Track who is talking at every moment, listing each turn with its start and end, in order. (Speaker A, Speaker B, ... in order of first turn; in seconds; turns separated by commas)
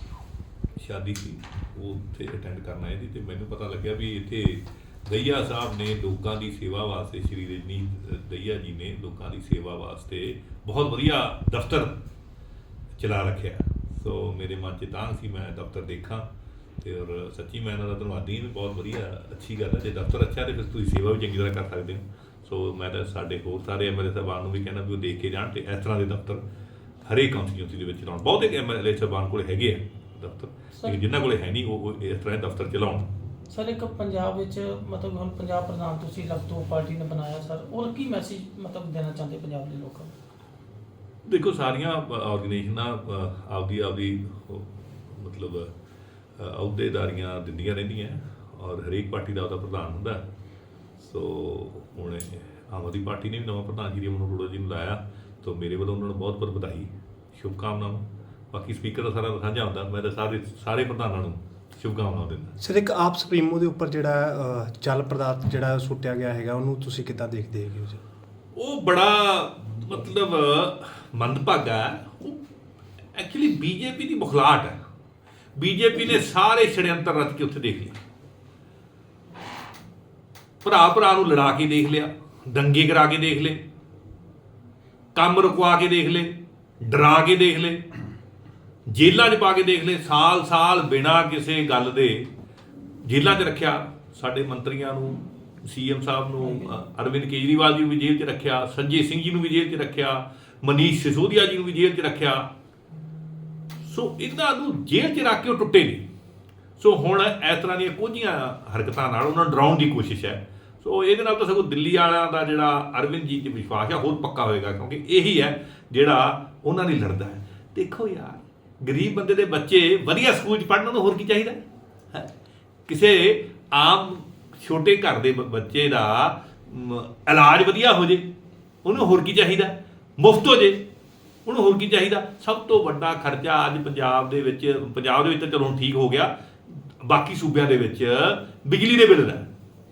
Speaker A: 0.8-12.0, Speaker A: 12.9-16.3, Speaker A: 16.8-26.4, Speaker A: 27.0-33.1, Speaker B: 33.5-40.1, Speaker A: 41.2-45.7, Speaker A: 46.4-50.2, Speaker A: 51.0-62.5, Speaker C: 62.6-68.0, Speaker A: 68.5-72.4, Speaker A: 73.1-74.8, Speaker A: 75.5-78.0, Speaker A: 80.6-83.6, Speaker A: 85.1-87.8, Speaker A: 88.9-92.3, Speaker A: 93.0-102.5, Speaker B: 96.4-96.7, Speaker A: 103.8-106.0, Speaker A: 106.8-122.3, Speaker A: 122.9-128.3, Speaker A: 128.8-130.8, Speaker A: 131.4-139.5